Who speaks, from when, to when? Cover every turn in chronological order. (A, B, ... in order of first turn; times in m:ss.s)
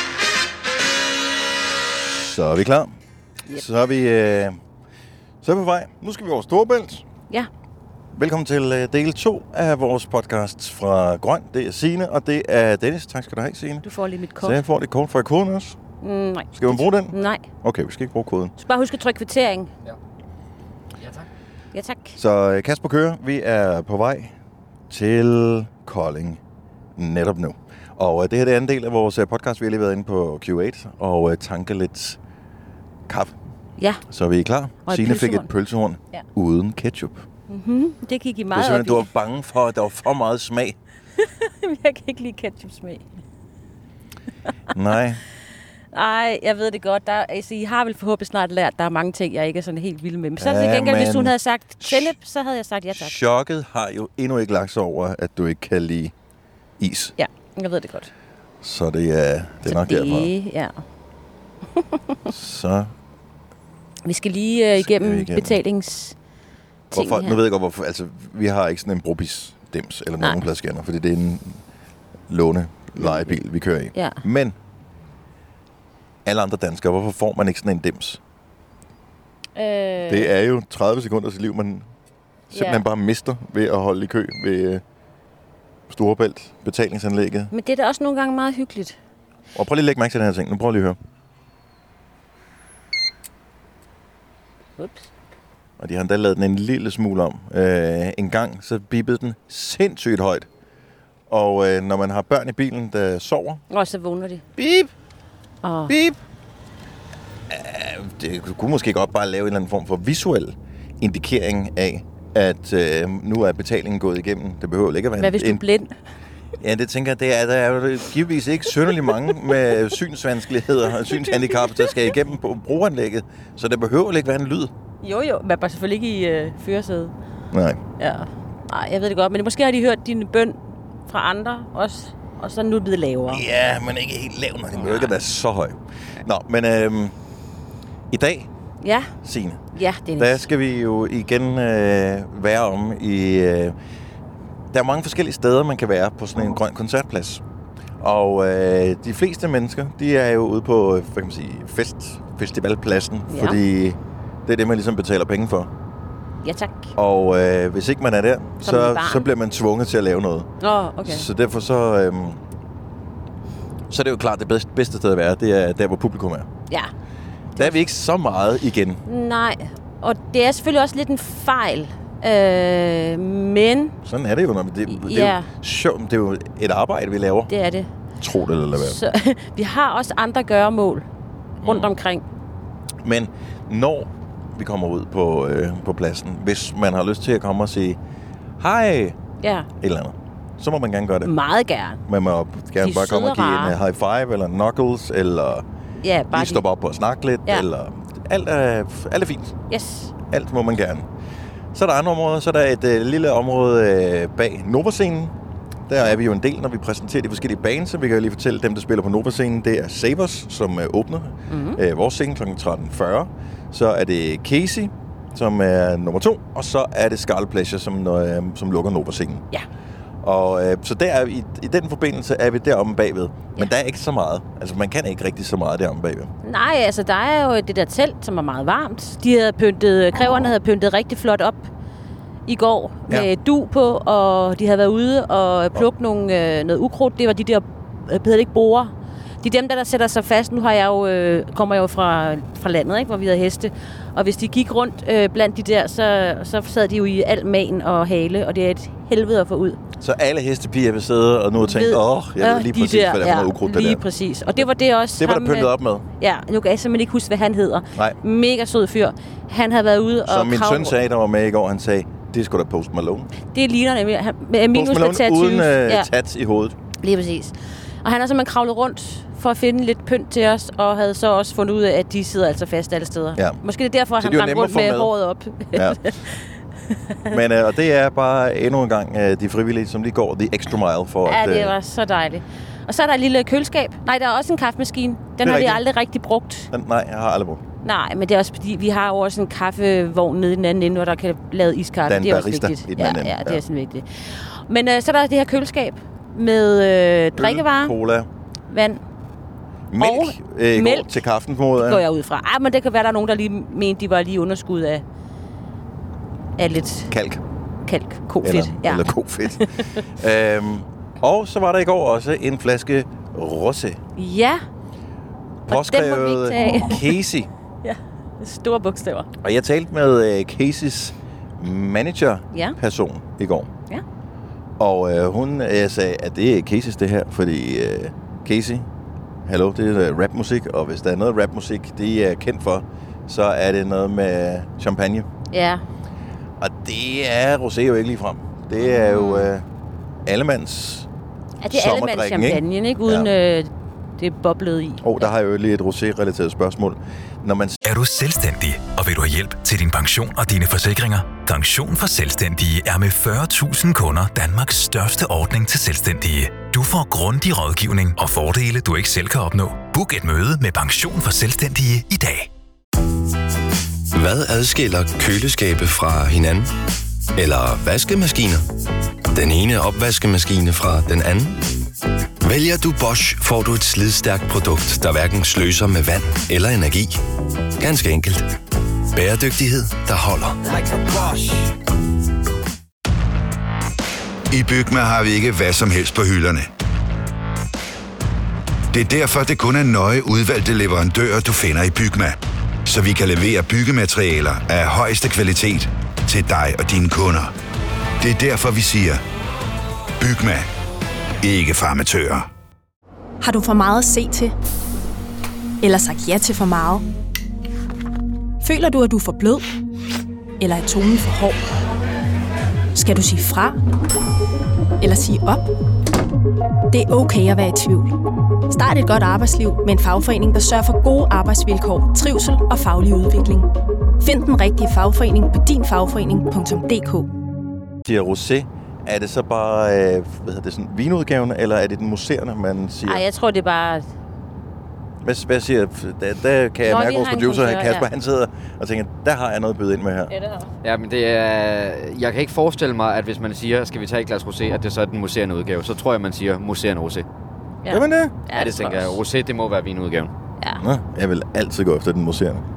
0:02.1-0:02.9 A
0:03.5-0:04.6 A
0:05.4-0:07.0 A
0:08.1-0:13.8 A
0:13.8-0:14.6 B
0:14.4-0:15.8 A
0:16.0-0:17.4 B
0:16.5-0:18.5 A
0:18.6-0:19.7 B
0:21.7-0:22.2 B
0:22.2-0:24.3 A
0:24.9-0:26.4 A
0:27.0-0:32.2 A
0:33.1-0:33.3 A
0:34.1-0:37.2 A
0:34.8-0:35.5 B
0:37.5-0:39.1 B
0:38.5-0:40.8 A
0:41.2-0:43.0 B
0:44.7-0:45.2 A
0:45.9-0:53.1 B
0:50.4-0:52.1 A
0:52.9-0:56.1 A
0:56.8-0:57.1 A
0:57.2-0:58.1 B
0:58.6-1:00.3 A
0:59.6-1:00.8 B
1:02.3-1:02.9 A
1:04.0-1:06.1 B
1:04.8-1:05.6 A
1:06.9-1:07.4 B
1:06.9-1:11.6 A
1:12.3-1:14.5 A
1:13.0-1:13.4 B
1:13.9-1:14.2 B
1:16.2-1:18.2 A
1:19.6-1:20.3 B
1:20.0-1:21.9 A
1:22.5-1:24.8 A
1:22.5-1:22.8 B
1:25.9-1:27.5 A
1:27.5-1:29.0 B
1:29.5-1:31.0 A
1:34.8-1:35.1 B
1:35.8-1:40.5 A
1:41.3-1:43.6 A
1:43.7-1:44.4 B
1:44.6-1:44.9 A
1:45.6-1:45.9 B
1:45.9-1:46.2 A
1:47.5-1:55.6 A
1:55.2-1:55.9 B
1:56.6-2:04.7 A
2:01.1-2:01.9 B
2:05.0-2:07.1 B
2:07.5-2:07.8 A
2:08.0-2:13.4 B
2:13.3-2:17.1 A
2:14.8-2:15.1 B
2:18.1-2:18.5 A
2:18.8-2:19.1 B
2:19.2-2:19.6 A
2:19.7-2:20.4 B
2:20.2-2:23.7 A
2:24.7-2:27.4 A
2:28.0-2:35.7 A
2:33.3-2:33.6 B
2:36.4-2:36.9 B
2:37.0-2:40.5 A
2:38.6-2:39.3 B
2:40.6-2:41.3 B
2:41.0-2:42.4 A
2:43.9-2:46.5 A
2:47.6-2:49.0 A
2:49.0-2:53.9 B
2:54.0-2:57.5 A
2:54.9-2:55.5 B
2:57.5-2:57.9 B
2:58.2-2:59.0 A
2:58.8-3:01.0 B
3:01.6-3:01.9 A
3:01.6-3:02.2 B
3:03.0-3:08.0 A
3:08.6-3:09.2 A
3:09.4-3:09.7 B
3:09.8-3:11.3 A
3:11.2-3:12.0 B
3:12.1-3:15.6 A
3:12.8-3:13.8 B
3:16.0-3:16.6 B
3:16.3-3:19.5 A
3:19.7-3:20.1 B
3:20.3-3:21.0 A
3:21.7-3:25.3 A
3:25.9-3:39.4 A
3:31.5-3:31.8 B
3:40.2-3:46.3 A
3:46.4-3:51.7 B
3:52.5-4:09.8 B
4:10.0-4:14.0 A
4:11.6-4:20.9 B
4:15.2-4:16.0 A
4:20.3-4:23.3 A
4:23.5-4:26.1 B
4:24.7-4:26.8 A
4:27.0-4:36.4 B
4:34.2-4:35.1 A
4:35.7-4:36.1 A
4:37.3-4:41.7 A
4:41.2-4:46.7 B
4:45.4-4:45.8 A
4:46.7-4:47.6 A
4:47.8-4:57.9 B
4:52.0-4:53.6 A
4:57.3-4:58.3 A
4:58.7-4:59.0 B
4:59.9-5:02.0 A
5:00.0-5:01.1 B
5:01.8-5:05.0 B
5:06.6-5:07.1 B
5:07.1-5:07.4 A
5:07.8-5:10.0 B
5:08.4-5:14.0 A
5:14.2-5:14.6 B
5:15.7-5:17.5 A
5:15.7-5:17.1 B
5:17.8-5:19.3 B
5:19.4-5:23.7 A
5:22.5-5:22.8 B
5:24.8-5:28.9 A
5:29.4-5:35.2 A
5:35.5-5:35.8 B
5:36.6-5:39.6 A
5:38.8-5:39.5 B
5:40.2-5:41.1 A
5:41.6-5:45.3 B
5:41.7-5:43.3 A
5:45.0-5:47.8 A
5:47.8-6:02.5 C
6:04.1-6:06.7 D
6:07.3-6:08.6 D
6:09.3-6:11.6 D
6:12.4-6:17.2 D
6:17.8-6:18.5 D
6:19.1-6:21.7 D
6:24.5-6:26.7 E
6:28.9-6:37.5 E
6:38.2-6:39.2 E
6:40.2-6:40.7 E
6:41.4-6:42.5 E
6:43.4-6:44.5 F
6:45.8-6:47.0 F
6:48.6-6:49.6 F
6:50.6-6:51.6 F
6:52.9-6:53.8 F
6:55.0-6:55.7 F
6:56.9-6:58.2 F
6:58.7-7:03.7 F
7:04.2-7:07.3 F
7:08.0-7:13.2 A
7:13.0-7:14.1 B
7:15.2-7:20.3 A
7:16.8-7:18.1 B
7:20.3-7:20.7 B
7:20.8-7:27.2 G
7:27.8-7:29.2 B
7:27.9-7:28.3 A
7:28.5-7:30.3 G
7:30.8-7:32.6 A